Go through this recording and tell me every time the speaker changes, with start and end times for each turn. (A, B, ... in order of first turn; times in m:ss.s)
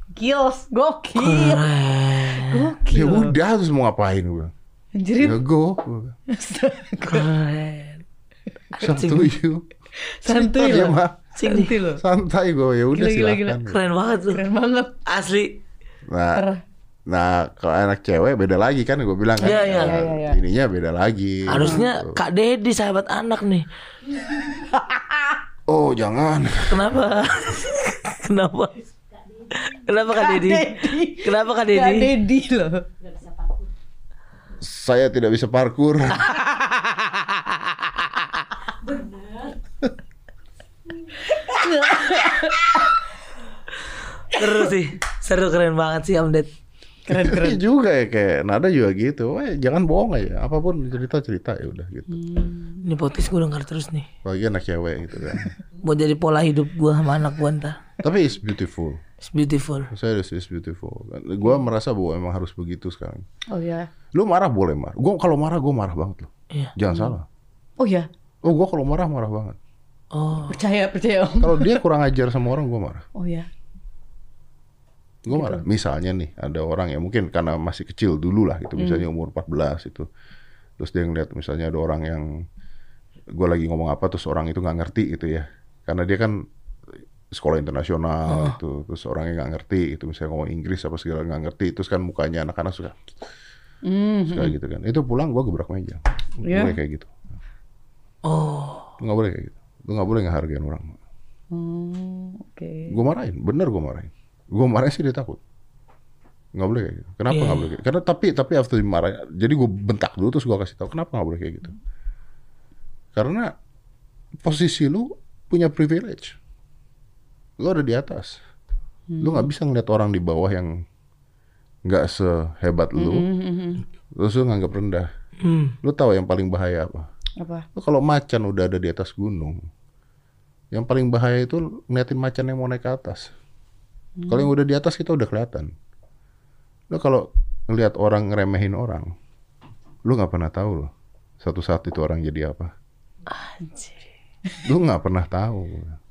0:00.2-0:01.6 A
0:01.2-0:02.6 B
0:02.4-0:03.4 A
0:02.9-0:04.5 C
0:05.0-0:05.4 A
0:05.2-0:06.2 C
0:06.3-0:07.3 A
0:07.0-0:08.0 B
0:08.8-0:09.7 C
0:08.9-0:09.3 B
0:10.0-0:12.0 A
0:10.3-0:11.2 C
0:11.4-0:11.8 B
0:12.0-0:13.8 C
0:13.0-0:13.6 A
0:13.7-0:14.4 B
0:14.3-0:15.0 A
0:15.1-0:15.6 B
0:16.1-0:16.5 C
0:16.4-0:16.6 A
0:17.1-0:22.2 C
0:19.4-0:20.4 A
0:19.4-0:20.0 B
0:21.5-0:23.7 B
0:21.6-0:21.9 A
0:24.5-0:25.4 A
0:25.7-0:27.0 C
0:26.7-0:28.9 B
0:29.5-0:32.1 B
0:30.1-0:32.9 A
0:34.6-0:36.3 C
0:36.2-0:38.4 B
0:41.3-0:42.9 A
0:44.3-0:46.5 B
0:47.1-0:47.6 A
0:47.1-0:52.2 C
0:52.1-0:52.8 A
0:52.8-0:54.1 B
0:54.2-0:55.6 C
0:55.8-0:57.8 B
0:58.0-0:59.0 C
0:59.2-0:59.9 B
0:59.9-1:03.2 C
1:03.5-1:03.9 A
1:04.1-1:07.3 C
1:07.8-1:08.1 A
1:08.4-1:09.6 C
1:10.1-1:10.6 B
1:10.5-1:11.8 A
1:11.4-1:13.0 C
1:13.2-1:13.5 A
1:15.2-1:20.1 C
1:15.3-1:15.6 A
1:18.8-1:19.0 A
1:20.8-1:22.4 C
1:23.3-1:26.4 C
1:27.3-1:33.0 C
1:28.3-1:28.6 B
1:33.8-1:34.6 A
1:34.3-1:37.1 C
1:36.4-1:36.8 A
1:38.2-1:38.9 B
1:39.0-1:41.0 C
1:41.5-1:43.0 A
1:42.9-1:45.4 C
1:46.6-1:51.8 C
1:47.3-1:47.7 B
1:53.1-1:53.5 C
1:54.4-1:56.4 C
1:57.6-1:58.4 C
1:59.1-1:59.5 A
1:59.2-2:00.8 C
2:01.9-2:03.3 C
2:03.0-2:03.8 A
2:04.2-2:05.1 C
2:05.4-2:05.8 B
2:05.8-2:07.1 C
2:07.4-2:07.7 A
2:07.8-2:09.6 C
2:10.7-2:13.3 C
2:14.2-2:14.5 A
2:14.3-2:15.7 C
2:16.9-2:19.1 C
2:20.0-2:22.7 C
2:23.3-2:24.0 B
2:24.6-2:26.0 C